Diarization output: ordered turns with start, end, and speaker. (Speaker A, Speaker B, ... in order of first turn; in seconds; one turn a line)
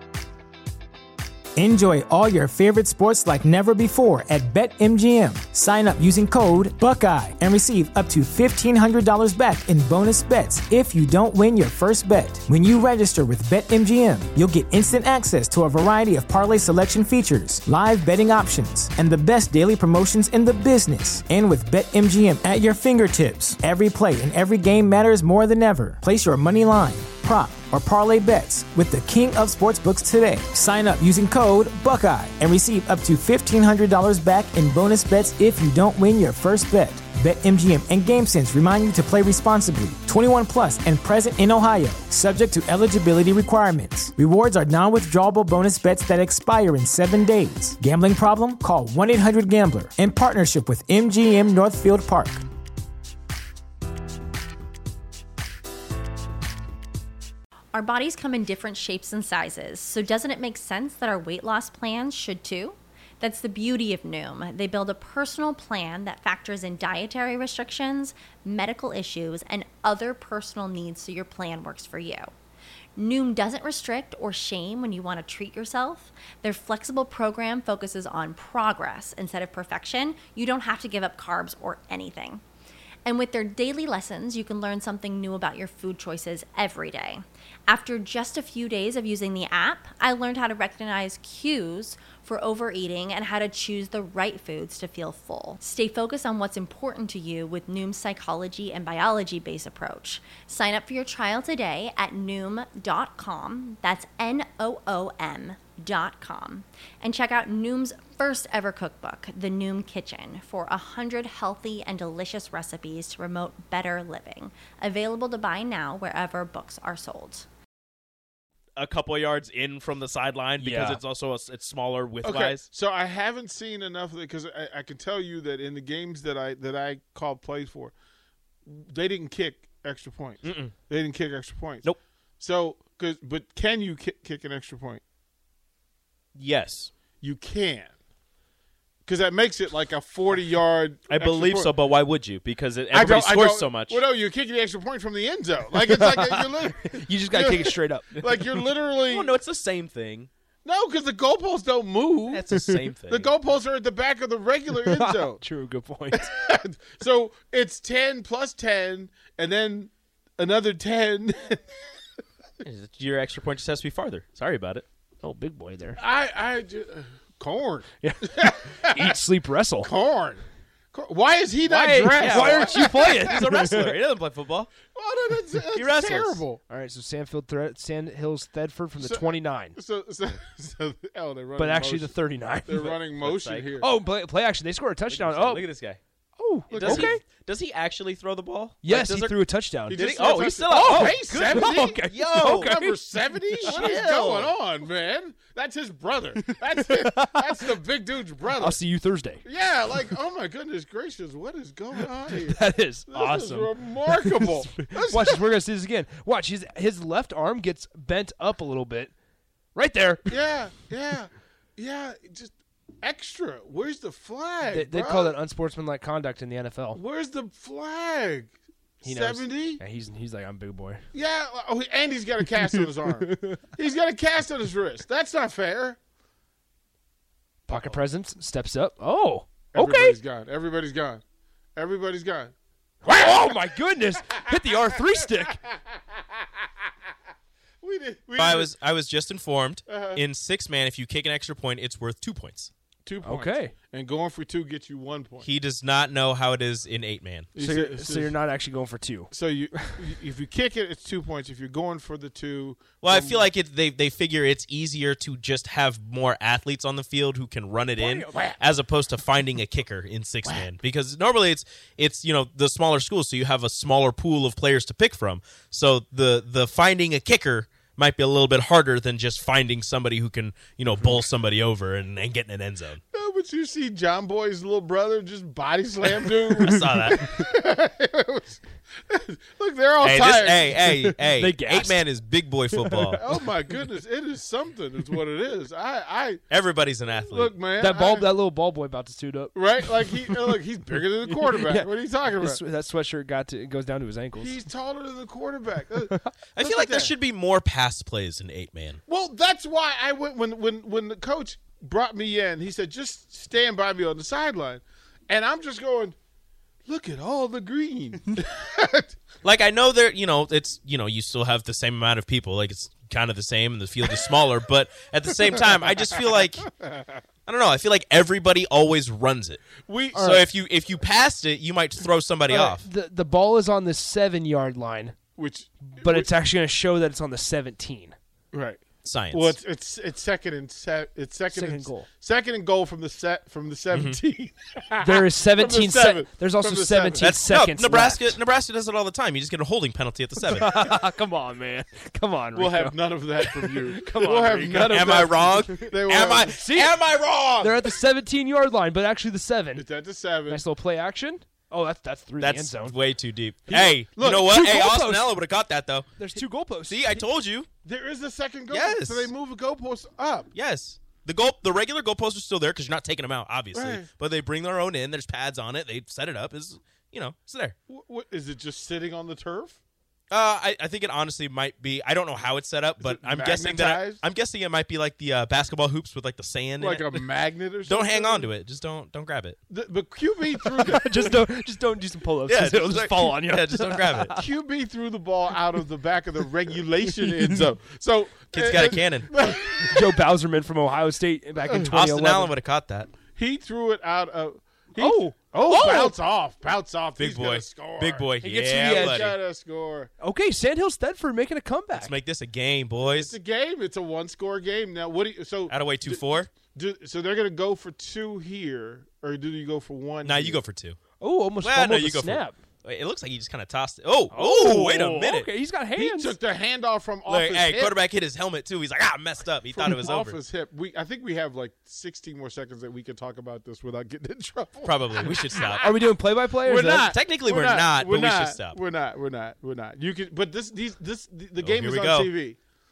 Speaker A: 1.6-52.4
Speaker B: 57.7-72.3
Speaker B: 73.0-82.4
Speaker B: 83.1-117.5
Speaker C: 118.8-122.7
Speaker D: 120.6-121.0
Speaker E: 122.2-127.9
Speaker E: 128.7-135.0
Speaker C: 130.4-130.7
Speaker C: 136.3-136.9
Speaker E: 137.2-137.9
Speaker E: 139.1-141.7
Speaker C: 141.1-144.0
Speaker E: 142.9-149.3
Speaker D: 145.8-148.1
Speaker C: 149.0-150.3
Speaker E: 150.7-152.4
Speaker C: 152.3-153.3
Speaker E: 153.1-155.4
Speaker D: 154.7-156.3
Speaker E: 156.1-161.6
Speaker C: 162.6-164.8
Speaker D: 165.2-166.0
Speaker E: 166.0-169.2
Speaker D: 168.0-169.9
Speaker E: 169.8-173.5
Speaker C: 171.7-174.7
Speaker D: 172.1-174.0
Speaker E: 174.9-176.6
Speaker C: 175.7-176.4
Speaker D: 176.7-179.8
Speaker E: 179.0-182.1
Speaker D: 181.6-182.8
Speaker E: 182.7-183.9
Speaker C: 182.7-183.7
Speaker D: 183.8-185.7
Speaker C: 185.1-186.0
Speaker D: 186.4-187.2
Speaker E: 186.7-187.1
Speaker C: 186.7-192.8
Speaker D: 188.8-190.0
Speaker E: 189.9-198.8
Speaker D: 190.8-193.0
Speaker C: 193.6-194.5
Speaker D: 196.3-197.6
Speaker D: 198.5-199.4
Speaker E: 199.4-205.6
Speaker D: 202.3-209.1
Speaker D: 209.8-210.4
Speaker E: 210.3-215.4
Speaker D: 214.7-217.0
Speaker E: 216.9-219.8
Speaker D: 219.0-221.0
Speaker E: 221.1-226.0
Speaker D: 222.5-223.6
Speaker D: 227.7-230.2
Speaker E: 229.7-231.2
Speaker E: 231.8-232.5
Speaker D: 233.0-235.6
Speaker E: 233.2-233.4
Speaker E: 234.3-235.8
Speaker E: 237.8-238.7
Speaker C: 238.3-242.7
Speaker E: 239.9-240.2
Speaker E: 243.0-245.5
Speaker D: 243.2-243.7
Speaker C: 245.4-247.5
Speaker E: 247.6-248.4
Speaker D: 247.6-250.0
Speaker E: 249.3-253.5
Speaker C: 253.0-273.0
Speaker E: 258.0-258.6
Speaker E: 273.1-280.9
Speaker C: 276.2-277.2
Speaker C: 280.0-283.2
Speaker D: 281.0-282.1
Speaker D: 282.7-283.8
Speaker E: 283.2-286.4
Speaker C: 286.5-287.6
Speaker E: 287.3-288.3
Speaker D: 287.8-290.6
Speaker E: 289.5-292.6
Speaker D: 291.2-294.6
Speaker E: 294.4-297.1
Speaker D: 296.1-296.3
Speaker C: 296.6-299.0
Speaker E: 299.1-306.2
Speaker E: 306.9-309.1
Speaker C: 309.4-316.7
Speaker E: 316.7-317.1
Speaker C: 317.5-322.8
Speaker E: 319.8-320.5
Speaker D: 322.5-325.2
Speaker E: 325.3-326.3
Speaker D: 326.0-328.2
Speaker E: 328.5-337.4
Speaker C: 329.0-329.6
Speaker D: 331.5-332.1
Speaker C: 333.9-334.2
Speaker D: 335.0-338.4
Speaker C: 337.2-340.8
Speaker D: 340.4-346.0
Speaker E: 342.5-347.9
Speaker C: 344.8-347.4
Speaker D: 346.5-346.8
Speaker D: 347.6-349.9
Speaker E: 349.8-350.6
Speaker D: 350.5-352.9
Speaker C: 352.4-357.7
Speaker E: 353.7-354.5
Speaker D: 354.4-355.4
Speaker D: 356.2-357.3
Speaker E: 357.8-360.5
Speaker C: 358.7-359.3
Speaker C: 360.5-367.8
Speaker E: 363.7-364.1
Speaker E: 367.9-369.8
Speaker C: 370.3-377.3
Speaker E: 373.0-374.2
Speaker E: 376.8-378.5
Speaker C: 377.8-379.6
Speaker E: 379.7-381.5
Speaker D: 380.5-384.4
Speaker C: 382.5-384.4
Speaker E: 384.3-390.3
Speaker D: 387.2-387.6
Speaker C: 388.5-389.3
Speaker D: 389.9-392.5
Speaker E: 391.6-391.9
Speaker C: 391.7-393.1
Speaker E: 393.3-400.1
Speaker D: 395.0-396.1
Speaker C: 397.2-399.4
Speaker D: 398.4-399.3
Speaker D: 400.2-402.1
Speaker C: 401.9-403.3
Speaker E: 403.0-410.6
Speaker C: 405.7-406.5
Speaker C: 410.2-411.0
Speaker D: 411.2-412.6
Speaker C: 411.6-415.5
Speaker D: 414.3-416.4
Speaker E: 415.9-418.0
Speaker C: 417.3-420.4
Speaker E: 419.7-432.6
Speaker C: 424.8-425.9
Speaker D: 425.8-427.1
Speaker C: 426.9-428.8
Speaker C: 431.6-432.3